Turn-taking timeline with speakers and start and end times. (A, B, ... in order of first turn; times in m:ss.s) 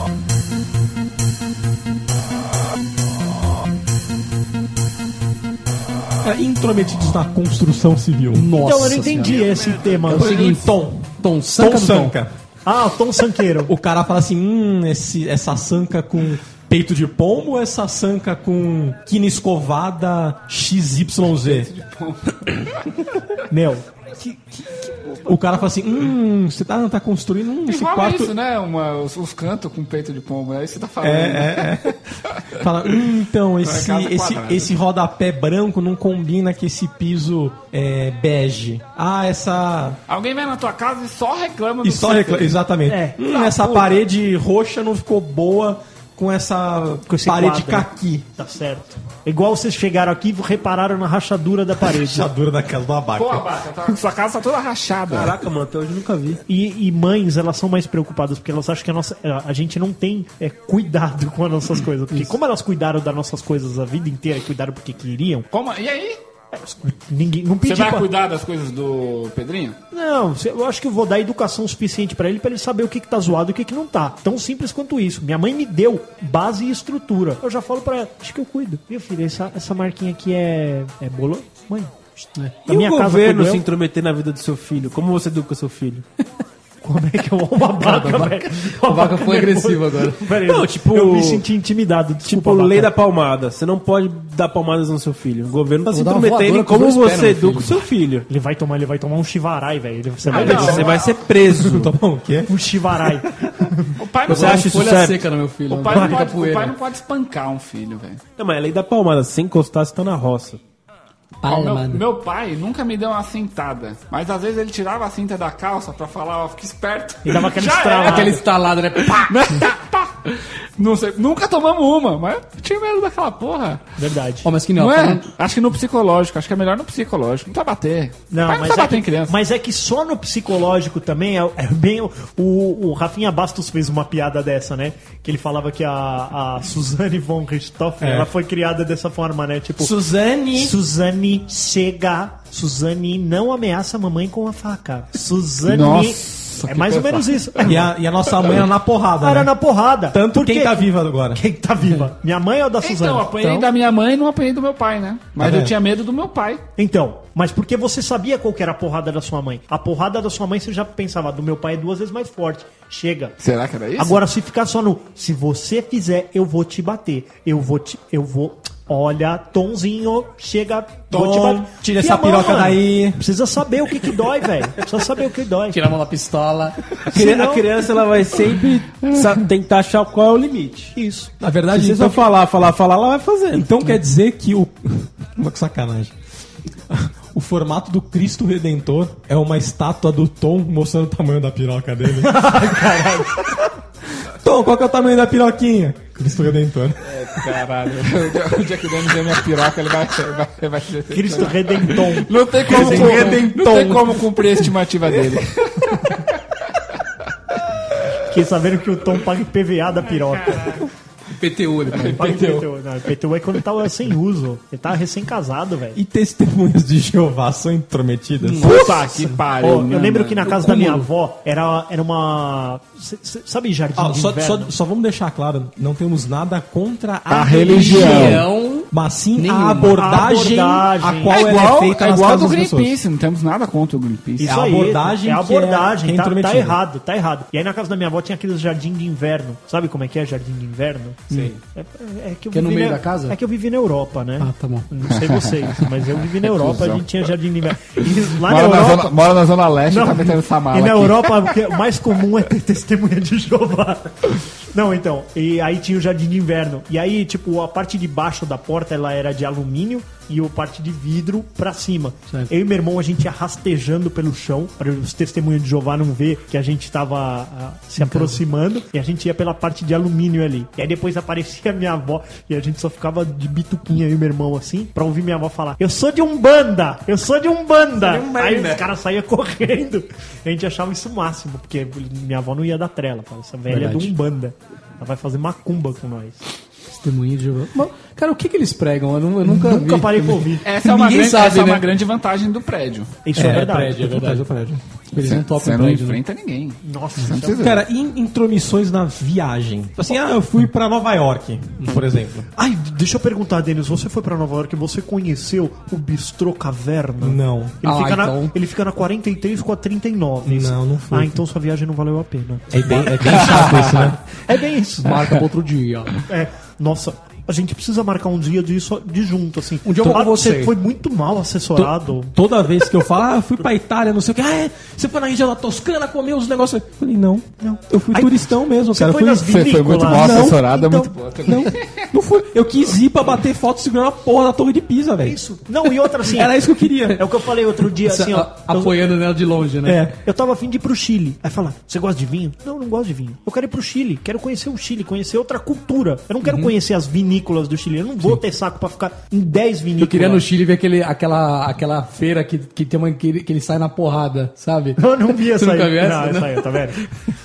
0:06.2-0:08.5 A
0:08.3-0:09.5 B
0:08.5-0:10.5 C
0:10.1-0:12.3 A
0:10.1-0:12.2 B
0:12.6-0:13.7 C
0:13.7-0:21.7 A
0:21.4-0:22.9 D
0:23.5-0:23.9 C
0:24.5-0:25.2 D
0:25.3-0:28.3 A
0:27.7-0:31.9 D
0:31.0-0:32.0 A
0:32.6-0:40.0 A
0:33.6-0:34.7 D
0:40.1-0:42.6 D
0:41.8-0:48.3 A
0:42.9-0:43.2 C
0:43.3-0:44.0 D
0:47.1-0:52.3 C
0:51.8-0:53.5 A
0:53.2-0:55.4 D
0:55.1-0:56.4 E
0:56.5-1:05.5 C
1:05.5-1:06.2 D
1:06.5-1:08.1 C
1:07.6-1:09.8 D
1:09.9-1:23.6 C
1:22.7-1:26.0 E
1:26.8-1:32.9 C
1:27.8-1:30.2 B
1:30.2-1:31.4 E
1:32.3-1:38.3 E
1:35.9-1:37.8 B
1:38.3-1:41.1 C
1:40.3-1:41.0 D
1:40.3-1:41.9 E
1:41.1-1:43.2 A
1:42.4-1:44.0 C
1:44.0-1:44.7 D
1:44.3-1:45.2 E
1:44.3-1:46.7 B
1:45.7-1:48.2 D
1:45.9-1:46.2 C
1:48.4-1:50.6 E
1:51.4-1:52.0 B
1:51.4-1:58.4 D
1:57.2-1:58.4 C
1:58.0-1:59.6 B
1:59.1-2:03.8 D
2:04.0-2:04.5 C
2:04.4-2:05.3 B
2:04.8-2:09.4 D
2:08.3-2:20.0 C
2:18.0-2:18.3 A
2:19.8-2:20.8 A
2:20.5-2:27.9 C
2:25.7-2:27.8 D
2:27.6-2:29.5 A
2:29.2-2:33.7 C
2:30.1-2:31.4 A
2:32.8-2:36.6 D
2:35.4-2:35.8 A
2:36.8-2:43.4 C
2:43.4-2:44.2 D
2:44.0-2:55.9 C
2:51.1-2:53.2 A
2:55.7-2:56.8 B
2:57.1-2:57.9 C
2:57.1-3:01.0 E
3:01.0-3:01.3 C
3:01.4-3:02.3 A
3:01.7-3:03.7 E
3:03.5-3:06.1 A
3:06.9-3:13.5 A
3:12.2-3:13.5 C
3:14.4-3:17.2 A
3:17.0-3:26.3 D
3:21.1-3:23.3 C
3:22.6-3:24.2 A
3:28.3-3:30.8 C
3:30.4-3:30.8 D
3:31.3-3:32.4 B
3:31.9-3:32.7 D
3:32.2-3:36.0 C
3:35.9-3:38.7 A
3:38.4-3:39.4 B
3:38.6-3:40.6 D
3:38.7-3:44.7 C
3:40.4-3:41.1 B
3:44.0-3:53.0 A
3:47.3-3:48.4 D
3:47.8-3:50.0 B
3:50.0-3:51.6 C
3:51.3-3:54.5 D
3:54.4-4:09.2 C
3:54.4-3:56.8 A
4:01.3-4:01.6 B
4:02.5-4:03.4 B
4:04.4-4:04.9 B
4:05.1-4:11.6 D
4:09.9-4:46.4 C
4:28.0-4:28.4 B
4:38.0-4:38.8 B
4:43.7-4:44.1 B
4:46.9-4:51.9 B
4:49.5-4:50.7 C
4:50.6-4:53.1 D
4:53.2-4:54.0 C
4:53.4-4:54.8 A
4:53.4-4:54.5 B
4:55.1-4:56.2 B
4:55.2-4:57.8 D
4:56.8-4:57.8 C
4:57.5-5:02.5 A
5:02.6-5:15.4 C
5:07.2-5:07.8 A
5:07.8-5:08.5 B
5:10.4-5:11.4 A
5:12.7-5:14.2 A
5:15.0-5:16.2 B
5:16.3-5:22.3 C
5:19.8-5:20.7 B
5:21.8-5:30.6 A
5:27.6-5:31.1 C
5:29.5-5:32.1 D
5:31.5-5:37.5 A
5:35.2-5:39.0 C
5:38.0-5:40.1 B
5:39.8-5:40.2 A
5:40.2-5:50.4 C
5:46.4-5:46.7 B
5:50.0-5:57.1 B
5:55.0-5:57.0 C